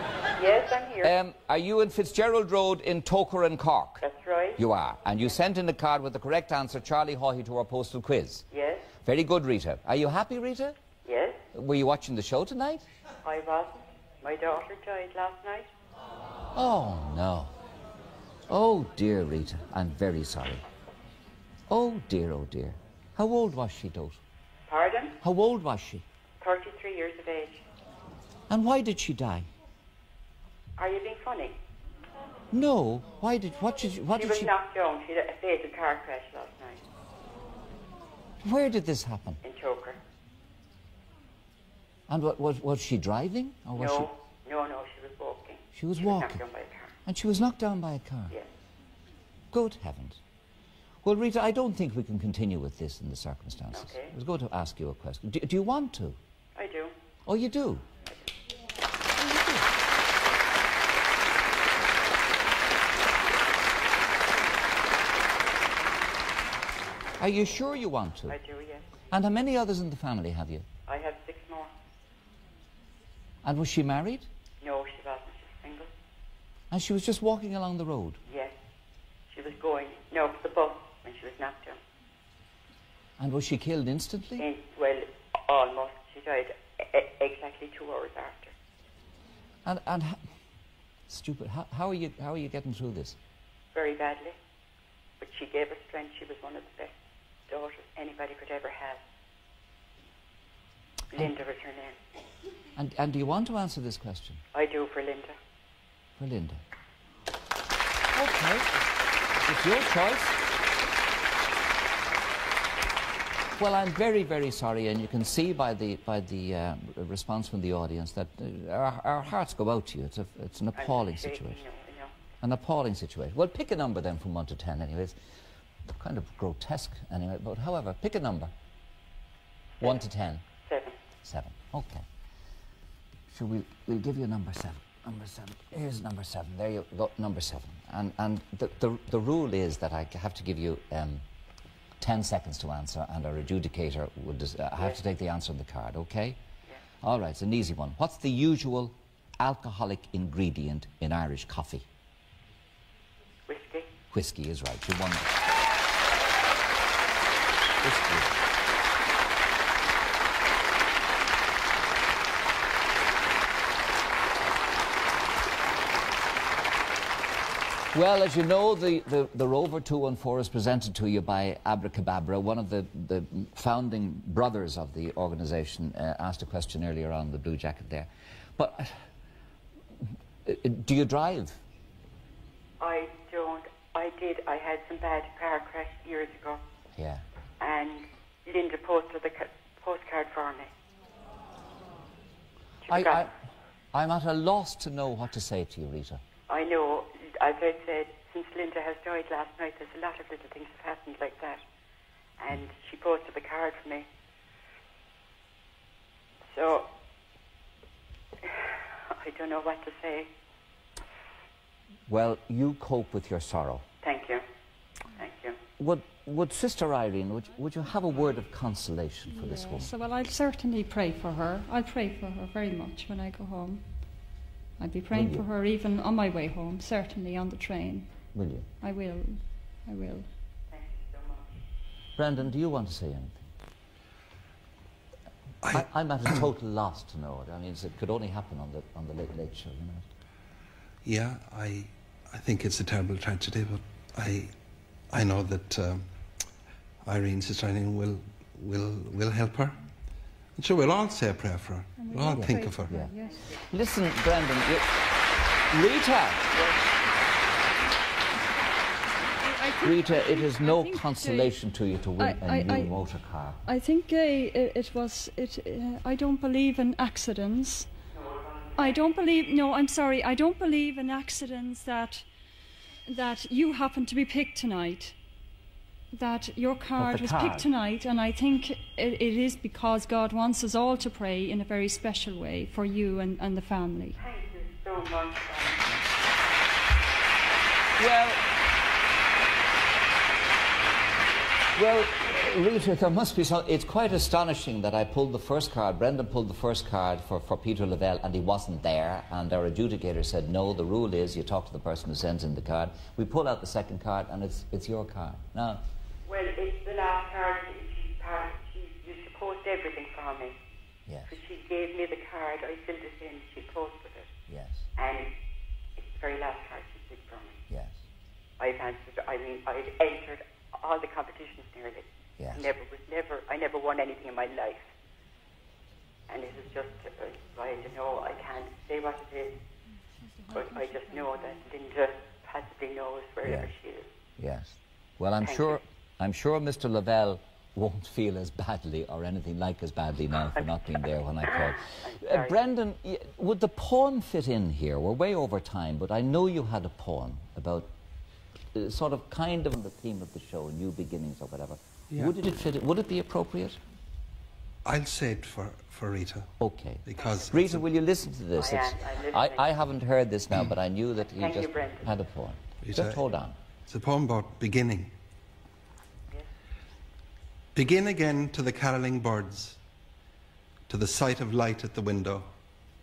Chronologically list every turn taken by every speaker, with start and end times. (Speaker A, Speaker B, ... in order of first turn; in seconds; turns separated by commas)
Speaker A: 0.3-1.1, Speaker B: 1.0-4.0, Speaker A: 4.0-4.6, Speaker B: 4.6-8.4, Speaker A: 8.5-8.9, Speaker B: 9.0-10.8, Speaker A: 11.0-11.4, Speaker B: 11.5-12.8, Speaker A: 13.2-15.7, Speaker B: 16.5-17.5, Speaker B: 18.5-20.6, Speaker B: 21.7-24.2, Speaker A: 24.7-25.2, Speaker B: 25.2-26.0, Speaker A: 26.4-27.6, Speaker B: 28.5-29.5, Speaker A: 30.8-31.6, Speaker B: 32.5-34.5, Speaker A: 34.1-36.8, Speaker B: 38.4-39.4, Speaker A: 39.4-40.0, Speaker B: 42.1-44.1, Speaker A: 43.8-46.9, Speaker B: 45.7-46.4, Speaker B: 47.0-48.4, Speaker B: 49.5-50.2, Speaker B: 51.0-56.2, Speaker A: 53.7-54.1, Speaker A: 56.5-56.9, Speaker B: 57.2-57.9, Speaker B: 59.2-59.6, Speaker B: 67.2-68.4, Speaker A: 68.3-68.8, Speaker B: 69.1-70.7, Speaker A: 70.8-71.7, Speaker B: 73.4-74.3, Speaker A: 74.6-75.9, Speaker B: 76.7-78.2, Speaker A: 78.2-78.5, Speaker A: 79.3-81.8, Speaker B: 83.2-84.5, Speaker A: 84.4-88.5, Speaker B: 89.6-90.2, Speaker B: 91.1-93.2, Speaker A: 93.7-94.3, Speaker A: 95.2-96.9, Speaker A: 97.5-99.0, Speaker A: 101.1-102.0, Speaker B: 102.8-104.4, Speaker A: 104.5-105.3, Speaker B: 106.2-106.6, Speaker B: 108.1-108.7, Speaker B: 109.4-110.4, Speaker B: 113.6-121.6, Speaker A: 120.8-122.1, Speaker B: 122.4-125.2, Speaker B: 125.9-128.5, Speaker B: 129.8-130.4, Speaker A: 130.6-131.0, Speaker B: 131.2-132.1, Speaker B: 133.3-141.2, Speaker B: 142.0-146.4, Speaker B: 147.0-151.9, Speaker A: 153.5-153.9, Speaker B: 154.1-155.4, Speaker B: 157.8-158.3, Speaker B: 167.9-179.0, Speaker B: 180.4-181.6, Speaker A: 182.8-186.6, Speaker B: 186.9-187.2, Speaker A: 187.6-190.7, Speaker A: 192.8-193.3, Speaker B: 192.9-193.3, Speaker B: 193.9-196.2, Speaker A: 196.5-201.6, Speaker A: 202.4-204.1, Speaker A: 206.5-206.9, Speaker A: 209.1-210.3, Speaker B: 212.1-213.8, Speaker A: 214.0-214.4, Speaker A: 215.1-215.6, Speaker B: 215.8-219.9, Speaker C: 219.3-224.1, Speaker C: 224.8-228.1, Speaker B: 225.1-225.5, Speaker B: 228.3-228.7, Speaker C: 228.8-230.3, Speaker A: 230.7-231.5, Speaker B: 232.2-233.5, Speaker D: 235.6-235.9, Speaker B: 235.7-240.1, Speaker D: 241.0-244.5, Speaker D: 245.1-246.1, Speaker D: 247.0-249.8, Speaker D: 250.6-253.0, Speaker C: 252.0-253.4, Speaker B: 252.3-254.9, Speaker B: 255.7-256.5, Speaker C: 259.4-261.6, Speaker B: 259.8-263.6, Speaker C: 262.2-263.0, Speaker C: 263.6-267.9, Speaker A: 268.1-268.9, Speaker C: 268.8-272.2, Speaker C: 273.1-275.1, Speaker C: 276.1-284.2, Speaker B: 277.0-277.7, Speaker A: 284.2-285.9, Speaker B: 288.0-288.4, Speaker B: 291.8-305.8, Speaker A: 306.2-310.6, Speaker B: 311.1-311.3, Speaker A: 311.3-314.3, Speaker B: 314.5-314.9, Speaker A: 315.0-315.3, Speaker A: 316.0-317.6, Speaker B: 317.7-318.0, Speaker A: 318.6-324.9, Speaker B: 322.4-322.7, Speaker A: 326.3-329.6, Speaker C: 330.4-331.3, Speaker A: 330.5-334.1, Speaker B: 333.4-333.7, Speaker B: 334.4-347.9, Speaker A: 335.4-335.8, Speaker A: 341.9-342.6, Speaker B: 348.7-353.8, Speaker D: 354.8-356.5, Speaker B: 356.6-363.6, Speaker D: 357.0-357.9, Speaker A: 357.2-357.5, Speaker A: 358.5-359.7, Speaker A: 361.3-362.1, Speaker D: 362.8-363.2, Speaker D: 363.9-365.1, Speaker D: 367.7-369.8, Speaker D: 370.9-372.5